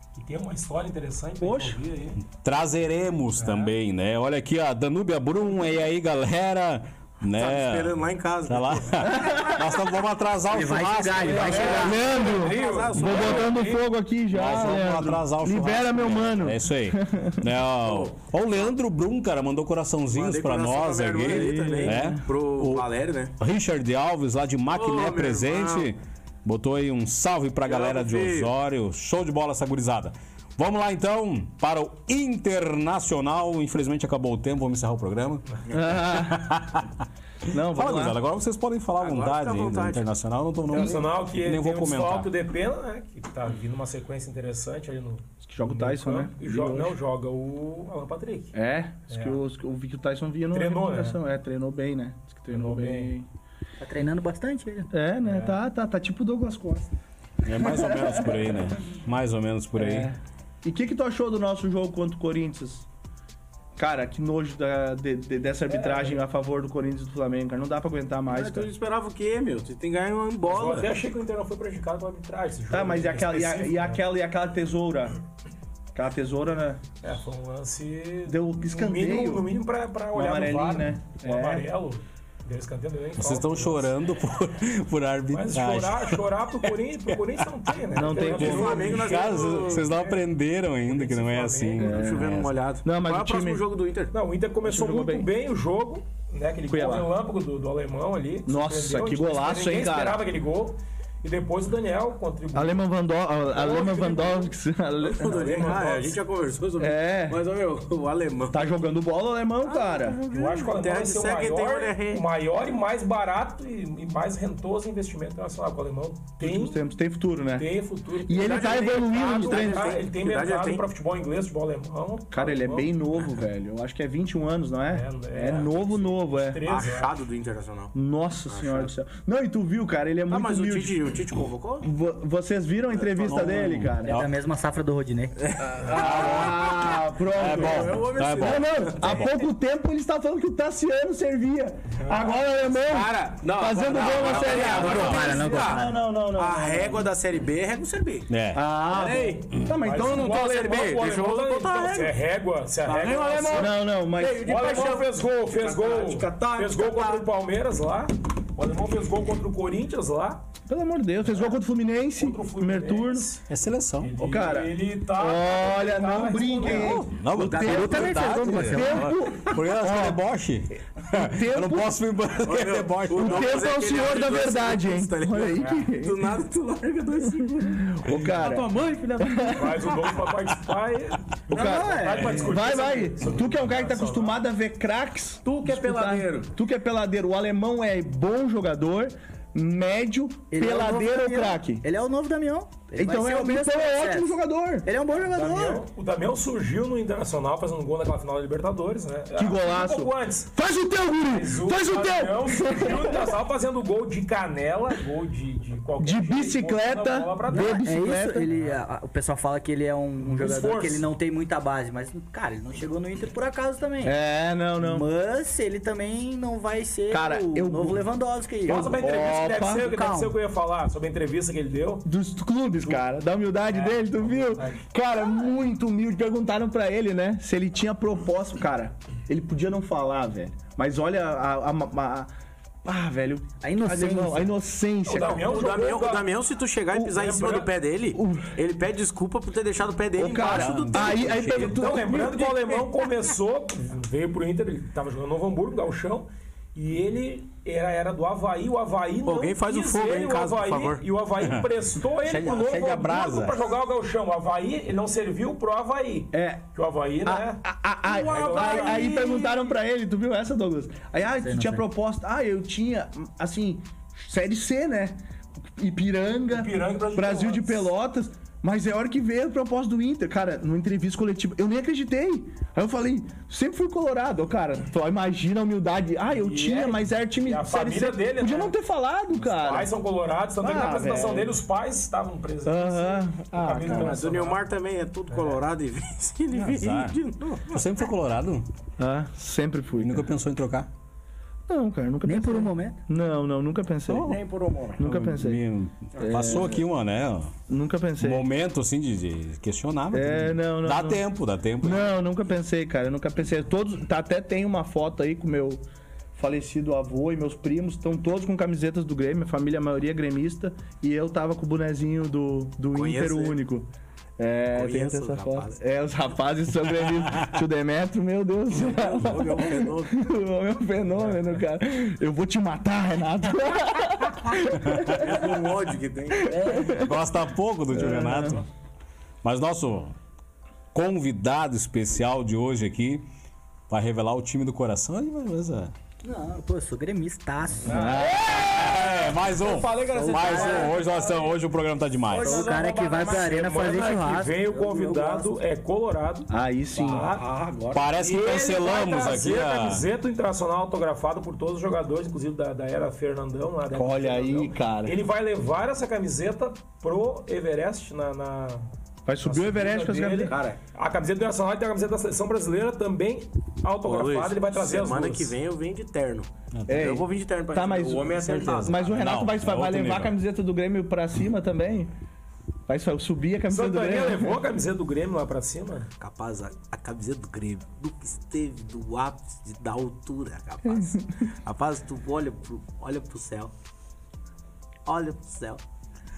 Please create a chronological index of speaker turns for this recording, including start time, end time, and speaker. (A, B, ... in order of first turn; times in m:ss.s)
0:00.1-0:02.2 A
0:01.4-0:01.8 B
0:02.4-0:08.0 C
0:03.4-0:03.7 A
0:07.2-0:09.5 D
0:08.5-0:11.8 C
0:09.0-0:09.6 B
0:10.5-0:12.1 E
0:11.2-0:13.8 A
0:11.3-0:13.6 D
0:11.8-0:17.4 B
0:14.3-0:22.8 C
0:17.8-0:18.3 D
0:20.1-0:23.3 D
0:21.2-0:22.2 B
0:23.4-0:37.0 C
0:24.7-0:25.9 D
0:27.6-0:28.5 D
0:35.7-0:36.5 B
0:37.5-0:38.2 B
0:37.5-0:42.3 C
0:39.0-0:40.1 D
0:40.7-0:48.5 A
0:45.5-0:47.0 B
0:48.5-0:53.2 B
0:49.1-0:49.4 A
0:50.5-0:51.2 A
0:52.5-0:53.1 A
0:53.8-0:54.9 E
0:54.9-0:56.9 B
0:55.2-0:55.6 A
0:57.4-1:00.1 C
0:57.6-0:58.6 B
0:59.8-1:02.9 B
1:03.8-1:08.7 B
1:05.7-1:06.2 A
1:08.3-1:10.9 D
1:10.4-1:14.0 A
1:12.7-1:15.2 B
1:15.9-1:16.8 B
1:17.0-1:23.9 A
1:18.3-1:19.5 B
1:20.1-1:21.6 B
1:23.2-1:32.5 C
1:25.3-1:30.2 A
1:27.9-1:29.0 B
1:28.1-1:29.8 D
1:30.8-1:31.9 A
1:31.8-1:32.3 B
1:31.8-1:34.1 D
1:32.8-1:33.6 B
1:34.1-1:42.9 A
1:34.6-1:35.3 B
1:36.7-1:37.1 B
1:38.5-1:40.2 B
1:42.5-1:45.7 B
1:43.5-1:44.5 A
1:45.0-1:48.8 D
1:45.2-1:46.2 A
1:46.8-1:47.4 B
1:48.5-1:50.2 B
1:49.6-1:52.2 D
1:50.3-1:56.8 A
1:56.4-1:57.7 B
1:57.5-2:02.9 A
1:58.3-2:00.0 B
1:58.4-2:00.8 D
2:02.3-2:06.6 B
2:04.9-2:07.2 A
2:06.6-2:07.9 D
2:07.9-2:11.1 B
2:08.5-2:08.9 D
2:10.3-2:11.9 D
2:11.8-2:14.2 B
2:13.2-2:14.3 C
2:14.0-2:15.5 E
2:15.5-2:16.8 D
2:15.7-2:27.1 B
2:15.9-2:19.3 C
2:17.3-2:19.3 D
2:22.0-2:22.3 A
2:22.7-2:28.3 D
2:24.2-2:25.3 C
2:24.4-2:26.0 E
2:28.3-2:28.6 C
2:28.5-2:30.6 B
2:28.9-2:32.1 D
2:29.8-2:33.8 A
2:32.8-2:37.2 D
2:33.5-2:34.6 B
2:34.3-2:40.4 A
2:40.7-2:43.3 B
2:42.1-2:43.4 A
2:43.5-2:44.1 C
2:44.0-2:47.0 A
2:44.2-2:50.2 B
2:46.7-2:53.6 C
2:47.5-2:48.8 D
2:47.5-2:49.0 E
2:51.0-2:51.9 B
2:52.4-3:00.3 D
2:53.1-2:56.3 B
2:57.6-3:00.0 B
2:59.5-3:04.4 A
3:01.5-3:11.8 B
3:05.4-3:06.5 D
3:10.5-3:15.8 E
3:12.9-3:14.9 B
3:15.2-3:20.5 A
3:19.4-3:23.3 B
3:21.3-3:27.9 A
3:26.0-3:28.5 B
3:27.5-3:34.2 E
3:30.2-3:31.1 A
3:34.0-3:35.1 B
3:34.8-3:39.1 E
3:37.1-3:38.1 B
3:38.7-3:39.9 B
3:38.7-3:42.0 A
3:39.8-3:40.3 E
3:42.0-3:52.3 B
3:42.8-3:43.0 A
3:43.6-3:44.8 A
3:52.8-3:55.9 B
3:53.6-3:54.5 E
3:55.0-3:56.3 A
3:55.5-4:01.6 D
3:56.9-3:57.7 A
3:58.1-3:58.5 B
4:00.2-4:02.9 B
4:00.3-4:01.8 C
4:01.4-4:19.7 A
4:09.2-4:11.0 D
4:11.4-4:11.7 C
4:12.2-4:13.6 C
4:16.3-4:16.6 B
4:17.2-4:25.2 B
4:18.2-4:19.3 D
4:21.4-4:21.8 E
4:25.8-4:39.9 B
4:26.5-4:27.9 A
4:36.3-4:38.7 A
4:39.3-4:44.6 A
4:40.6-4:41.6 B
4:42.6-4:44.2 B
4:43.8-4:47.8 D
4:45.3-4:45.6 A
4:46.5-4:48.7 C
4:49.0-4:50.3 B
4:50.0-4:50.9 C
4:51.7-4:54.4 B
4:52.2-4:53.0 E
4:54.1-4:55.0 D
4:55.0-4:55.6 B
4:55.0-4:57.5 C
4:56.1-4:56.7 D
4:56.2-4:56.8 B
4:57.7-4:58.4 B
4:58.2-5:02.1 C
5:00.1-5:01.2 B
5:01.8-5:05.8 B
5:06.4-5:13.9 B
5:12.9-5:13.6 D
5:14.4-5:25.8 B
5:14.7-5:15.8 D
5:18.7-5:20.2 D
5:25.1-5:26.6 D
5:26.4-5:26.9 E
5:26.5-5:27.1 B
5:26.9-5:28.6 C
5:27.9-5:28.6 B
5:29.4-5:30.1 C
5:30.9-5:33.2 C
5:33.9-5:35.9 C
5:36.2-5:38.1 E
5:37.8-5:41.4 D
5:37.9-5:38.5 B
5:38.4-5:42.7 C
5:40.1-5:41.0 E
5:42.3-5:45.4 E
5:42.3-5:46.5 A
5:42.3-5:43.5 D
5:44.7-5:45.5 D
5:46.5-5:47.3 B
5:46.9-5:48.6 D
5:47.0-5:47.4 A
5:47.9-5:50.0 C
5:48.2-5:58.9 A
5:53.9-5:55.2 B
5:59.2-6:00.5 B
5:59.4-6:05.5 A
6:00.4-6:00.8 D
6:04.0-6:09.1 D
6:06.7-6:07.2 C
6:06.9-6:12.1 B
6:08.9-6:10.4 C
6:12.9-6:14.6 B
6:13.7-6:16.1 A
6:16.2-6:23.7 D
6:25.0-6:25.8 D